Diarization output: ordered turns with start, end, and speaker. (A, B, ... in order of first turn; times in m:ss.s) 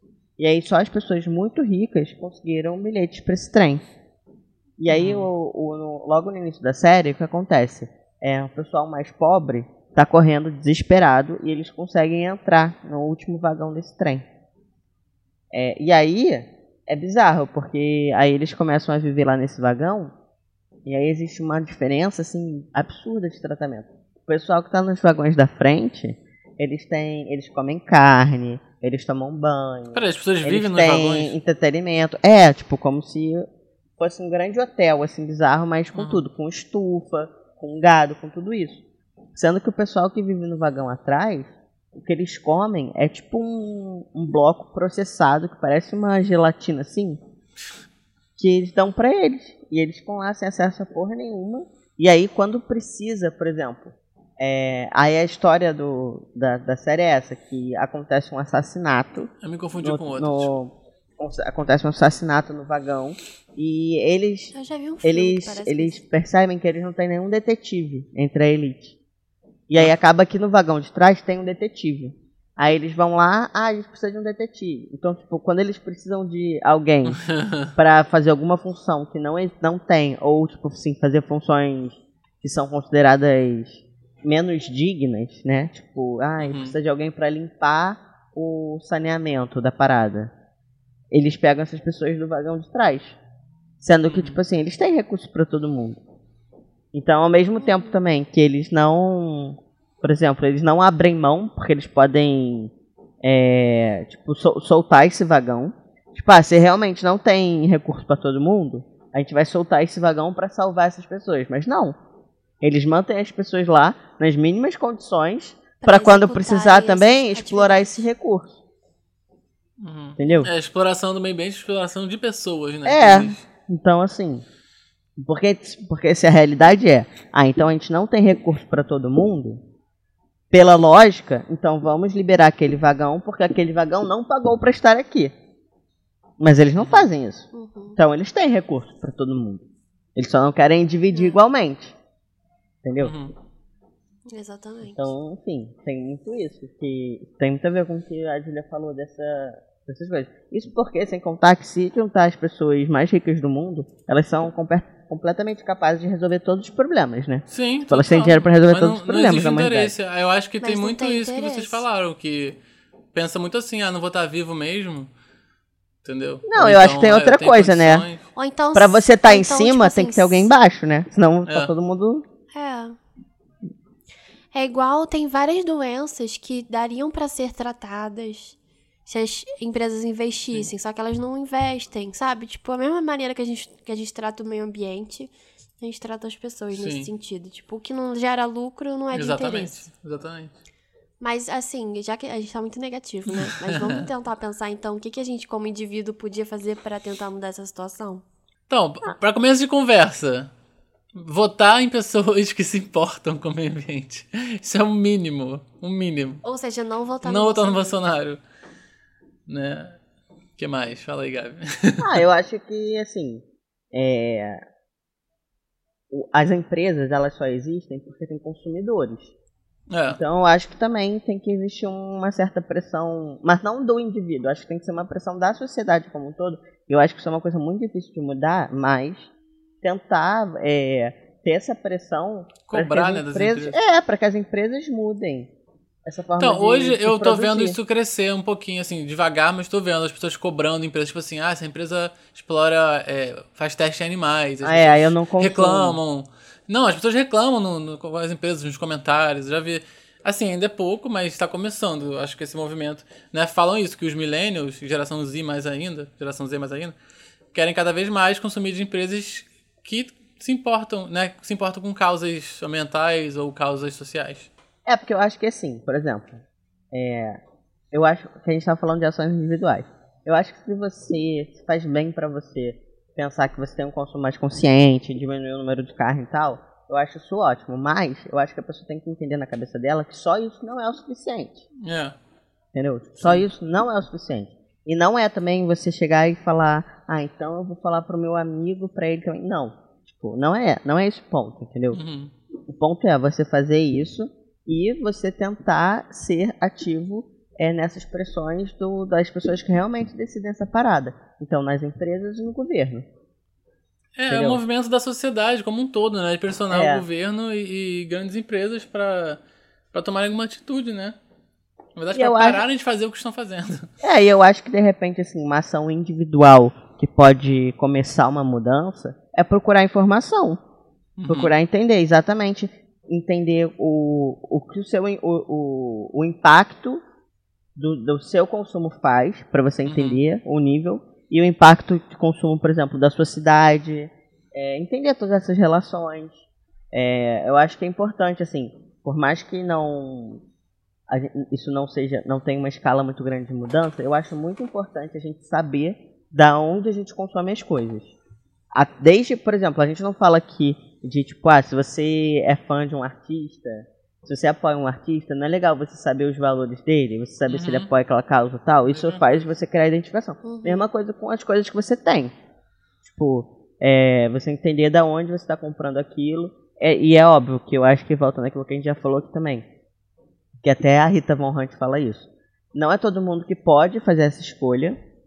0:00.4-0:03.8 A
0:04.8-0:14.2 A
0:04.9-0:05.3 B
0:15.5-0:20.1 A
0:20.8-0:33.4 A
0:29.9-0:31.3 B
0:34.0-0:38.8 A
0:35.9-0:36.2 B
0:39.3-0:47.2 A
0:48.4-0:59.3 A
0:59.4-1:00.5 B
0:59.8-1:04.5 A
1:04.5-1:06.0 C
1:05.0-1:08.9 A
1:09.7-1:17.2 A
1:17.1-1:17.7 B
1:17.8-1:30.3 A
1:26.4-1:26.8 B
1:31.1-1:33.2 A
1:33.8-1:36.0 A
1:34.1-1:34.4 B
1:36.9-1:42.7 A
1:37.6-1:37.9 C
1:43.2-1:51.9 A
1:52.6-1:58.6 A
1:55.8-1:58.0 C
1:59.8-2:03.4 B
2:00.2-2:00.5 A
2:02.8-2:04.4 A
2:05.2-2:09.6 A
2:10.5-2:15.3 A
2:16.4-2:19.6 A
2:16.8-2:17.0 B
2:17.5-2:18.0 C
2:20.2-2:21.9 A
2:21.1-2:21.4 C
2:22.8-2:23.1 A
2:23.0-2:23.3 B
2:24.3-2:25.1 C
2:24.8-2:39.9 A
2:37.5-2:42.6 B
2:40.6-2:41.8 C
2:43.1-2:45.1 B
2:46.0-2:48.2 B
2:46.5-2:48.0 A
2:48.3-2:50.5 C
2:48.7-2:52.2 A
2:51.4-2:51.7 B
2:52.5-2:53.0 C
2:54.5-2:58.6 C
2:59.1-3:09.8 C
3:06.7-3:07.1 B
3:09.1-3:10.5 B
3:11.2-3:18.2 C
3:13.3-3:14.0 B
3:18.7-3:20.5 B
3:21.1-3:26.4 B
3:26.4-3:28.0 C
3:27.2-3:28.4 B
3:29.5-3:30.0 B
3:30.6-3:32.1 B
3:32.0-3:34.6 A
3:36.1-3:39.3 A
3:39.9-3:40.2 B
3:40.1-3:49.3 A
3:49.8-3:55.5 A
3:52.7-3:53.8 B
3:56.0-3:57.8 A
3:56.4-4:16.9 B
4:04.6-4:06.0 A
4:17.5-4:24.5 B
4:24.8-4:27.4 A
4:27.9-4:41.6 A
4:41.8-4:42.2 B
4:42.7-4:52.0 A
4:51.9-4:52.3 B
4:52.7-5:03.0 A
5:04.2-5:09.4 B
5:04.3-5:04.6 A
5:06.7-5:07.0 A
5:09.9-5:11.2 B
5:12.0-5:13.9 B
5:12.1-5:12.6 A
5:14.0-5:20.6 A
5:21.2-5:21.5 B
5:21.3-5:27.0 A
5:27.8-5:36.4 A
5:29.9-5:30.2 B
5:36.9-5:40.4 A
5:41.1-5:48.1 A
5:48.7-6:02.3 A
5:57.5-5:57.9 B
5:58.9-5:59.4 B
6:00.4-6:00.8 C
6:03.0-6:09.6 A
6:10.6-6:15.0 A